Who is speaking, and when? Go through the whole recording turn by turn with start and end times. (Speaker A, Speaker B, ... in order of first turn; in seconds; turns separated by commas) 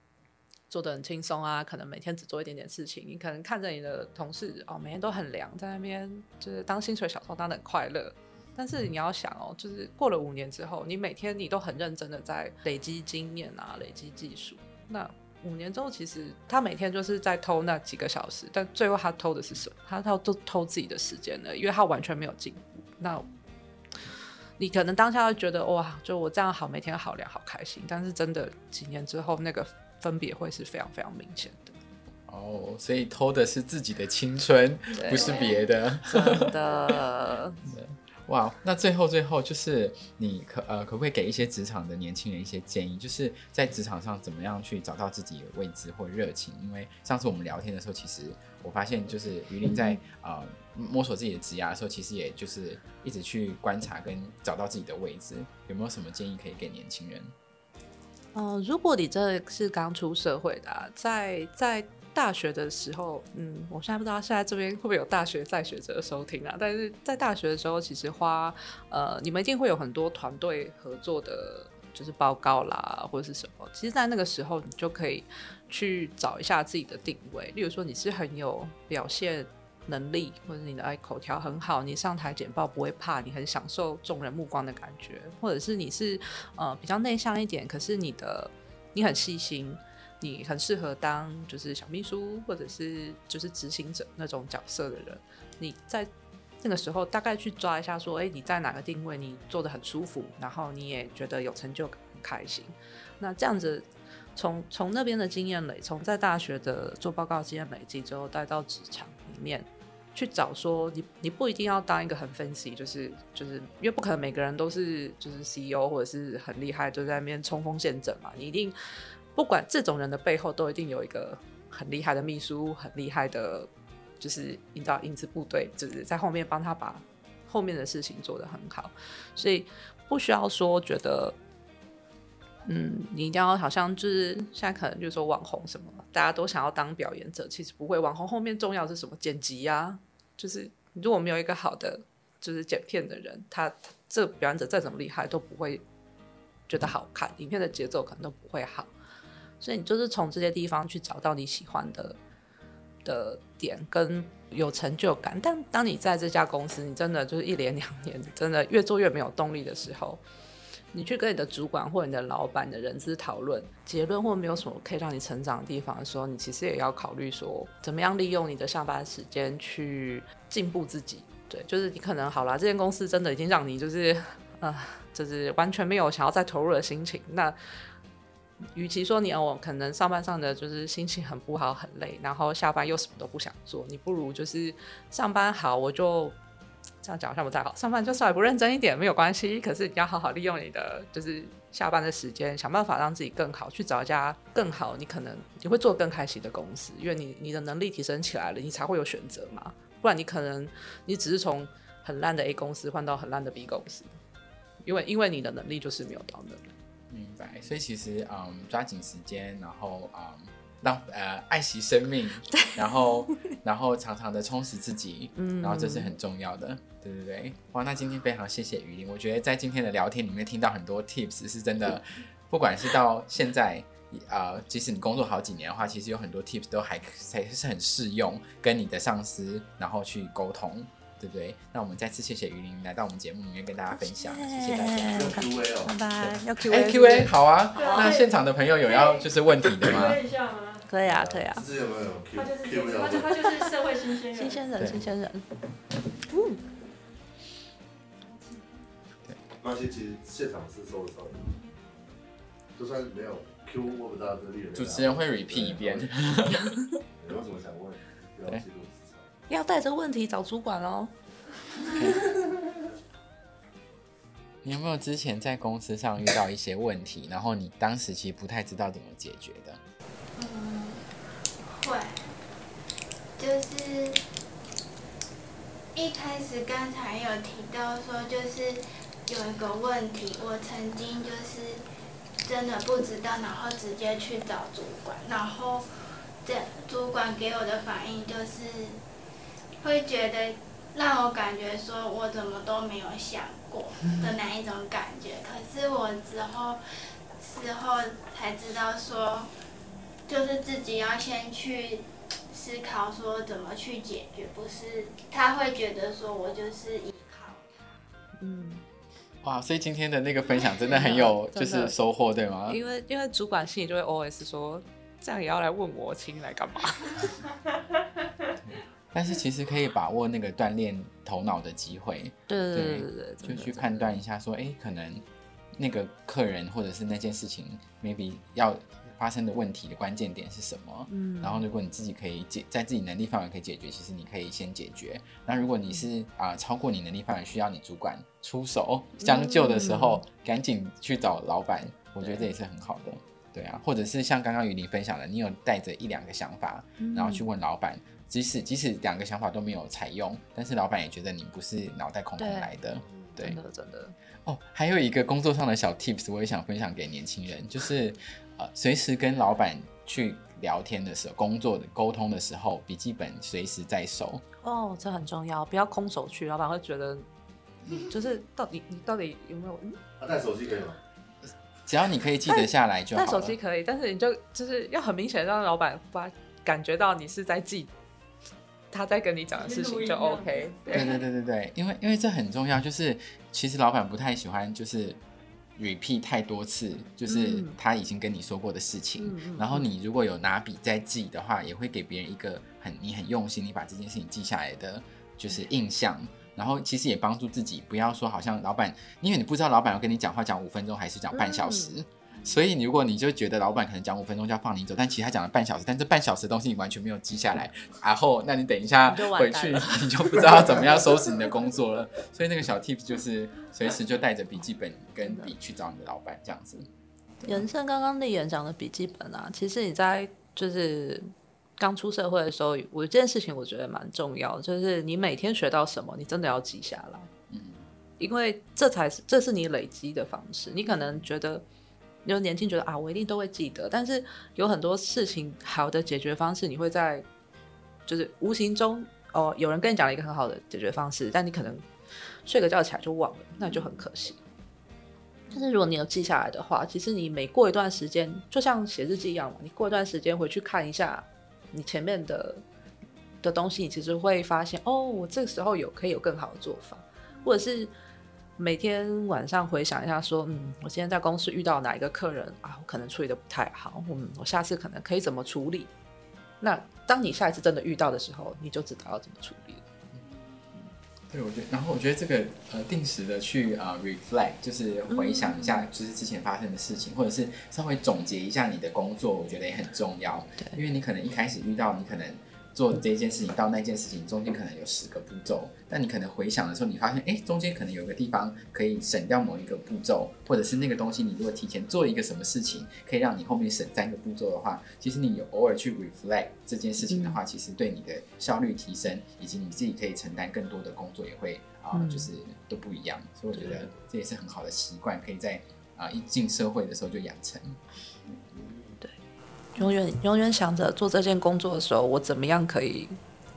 Speaker A: 0.7-23.3, Speaker A: 24.6-31.8, Speaker B: 32.3-36.5, Speaker A: 34.9-35.5, Speaker A: 36.0-37.6, Speaker B: 37.7-57.3, Speaker A: 49.7-50.0, Speaker A: 58.3-96.1, Speaker A: 96.6-118.8, Speaker A: 119.3-123.7, Speaker A: 124.2-131.4, Speaker A: 132.7-145.8, Speaker A: 146.7-148.9, Speaker A: 149.6-152.2, Speaker A: 153.1-160.2, Speaker A: 160.9-177.6, Speaker A: 178.8-186.4, Speaker A: 187.0-204.1, Speaker A: 204.8-206.6, Speaker B: 207.1-235.4, Speaker A: 215.4-216.1, Speaker A: 234.2-237.3, Speaker C: 235.1-235.9, Speaker B: 236.2-240.2, Speaker D: 237.8-238.3, Speaker D: 238.9-239.2, Speaker D: 239.8-240.9, Speaker A: 240.9-241.7, Speaker B: 241.1-241.4, Speaker C: 241.4-243.4, Speaker D: 242.3-244.6, Speaker A: 244.3-245.5, Speaker B: 244.8-245.1, Speaker A: 246.3-246.6, Speaker D: 248.2-248.7, Speaker C: 249.6-251.5, Speaker C: 252.8-256.2, Speaker B: 254.7-256.8, Speaker C: 257.1-259.3, Speaker A: 259.5-261.1, Speaker B: 264.6-269.8, Speaker E: 270.4-271.1, Speaker E: 271.7-272.3, Speaker E: 273.4-274.2, Speaker E: 275.9-281.8, Speaker E: 282.4-285.9, Speaker E: 286.4-289.0, Speaker E: 289.8-296.8, Speaker E: 297.4-299.5, Speaker E: 300.3-307.6, Speaker A: 308.4-308.8, Speaker B: 309.4-312.8, Speaker A: 310.9-311.9, Speaker A: 312.7-317.3, Speaker B: 318.7-325.2, Speaker A: 322.5-324.1, Speaker B: 325.8-353.6, Speaker A: 331.1-331.6, Speaker A: 339.2-340.2, Speaker A: 347.0-347.4, Speaker A: 352.4-352.7, Speaker C: 353.0-353.4, Speaker A: 353.4-354.1, Speaker B: 354.4-364.4, Speaker A: 364.6-367.3, Speaker A: 367.9-370.0, Speaker C: 370.2-371.0, Speaker B: 371.9-373.6, Speaker A: 372.5-377.9, Speaker A: 378.9-381.2, Speaker D: 379.6-381.1, Speaker B: 380.9-385.2, Speaker B: 385.8-416.9, Speaker A: 387.3-387.8, Speaker A: 389.2-389.9, Speaker A: 401.3-401.9, Speaker A: 409.1-410.1, Speaker A: 415.2-415.5, Speaker A: 417.4-427.3, Speaker B: 427.5-427.8, Speaker A: 428.2-431.6, Speaker A: 432.2-437.3, Speaker A: 438.1-441.8, Speaker A: 442.4-444.4, Speaker A: 445.5-452.6, Speaker A: 453.4-457.9, Speaker A: 458.6-465.9, Speaker A: 466.6-469.8, Speaker B: 471.3-507.8, Speaker A: 475.1-475.9, Speaker A: 497.1-497.4, Speaker A: 501.9-502.3, Speaker C: 503.6-503.9, Speaker C: 508.5-509.0, Speaker A: 509.8-513.2